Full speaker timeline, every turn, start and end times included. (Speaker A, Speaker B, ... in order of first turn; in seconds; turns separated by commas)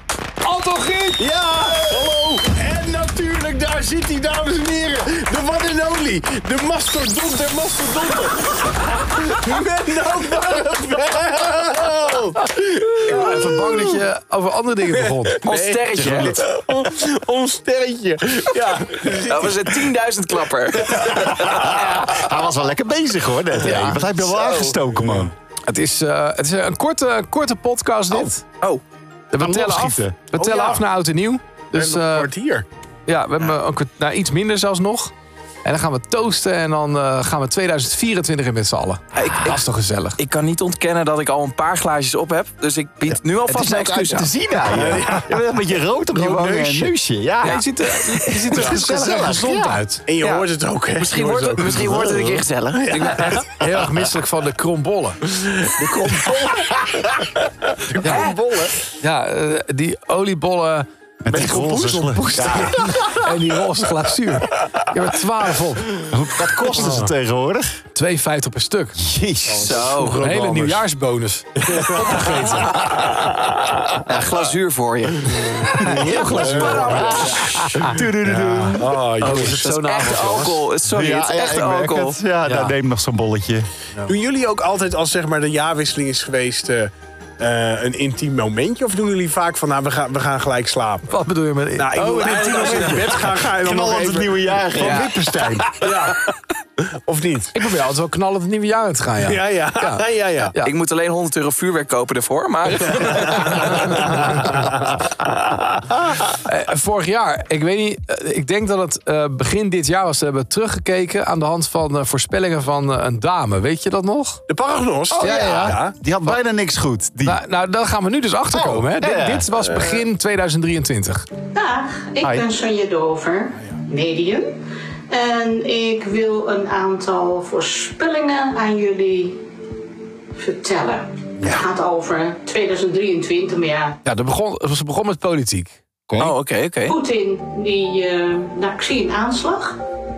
Speaker A: 0.4-1.2, Speaker B: 1.2-14.0, Speaker A: 13.0-16.4, Speaker B: 14.9-19.9, Speaker C: 15.4-16.4, Speaker C: 19.3-21.9, Speaker B: 20.8-21.4, Speaker D: 21.5-25.3, Speaker A: 23.7-24.0, Speaker C: 23.8-24.7, Speaker B: 24.1-24.6, Speaker A: 25.7-28.4, Speaker C: 28.1-28.8, Speaker A: 29.3-32.3, Speaker D: 29.4-30.2, Speaker B: 30.3-30.8, Speaker B: 31.7-32.7, Speaker A: 33.1-35.1, Speaker A: 35.6-40.2, Speaker C: 39.1-39.6, Speaker C: 40.2-44.3, Speaker D: 43.4-49.8, Speaker B: 44.7-45.5, Speaker B: 46.1-46.9, Speaker A: 47.4-50.0, Speaker B: 48.5-48.9, Speaker B: 50.0-52.1, Speaker C: 50.2-53.4, Speaker D: 51.6-52.5, Speaker B: 52.9-53.3, Speaker A: 53.0-55.2, Speaker B: 55.3-58.8, Speaker A: 58.0-58.2, Speaker C: 58.0-58.4, Speaker A: 59.0-66.0, Speaker D: 61.2-62.9, Speaker B: 61.3-63.0, Speaker D: 66.1-67.8, Speaker A: 66.7-67.0, Speaker B: 66.7-67.1, Speaker A: 67.9-69.0, Speaker D: 69.0-69.9, Speaker B: 69.4-70.9, Speaker C: 69.5-70.2, Speaker A: 70.1-73.1, Speaker B: 71.6-74.0, Speaker C: 74.0-77.6, Speaker B: 75.4-77.3, Speaker A: 75.5-80.7, Speaker D: 76.0-79.0, Speaker B: 78.8-79.6, Speaker C: 79.2-82.2, Speaker D: 80.9-83.7, Speaker A: 82.4-82.7, Speaker B: 84.0-91.1, Speaker A: 91.1-93.4, Speaker B: 91.7-97.6, Speaker D: 93.2-95.7, Speaker C: 94.8-95.2, Speaker A: 97.5-100.7, Speaker B: 99.2-100.5, Speaker C: 100.6-104.1, Speaker B: 103.0-103.7, Speaker A: 103.5-104.6, Speaker B: 105.2-105.9, Speaker A: 106.4-114.4, Speaker B: 114.5-116.0, Speaker A: 115.2-116.4, Speaker D: 115.2-117.4, Speaker A: 117.2-121.2, Speaker D: 118.5-119.5, Speaker B: 119.6-120.0, Speaker E: 121.5-124.6, Speaker D: 122.2-122.5, Speaker E: 125.1-129.4, Speaker E: 130.3-134.0, Speaker A: 134.0-135.8, Speaker D: 136.1-136.3, Speaker C: 136.2-136.9, Speaker E: 136.8-139.8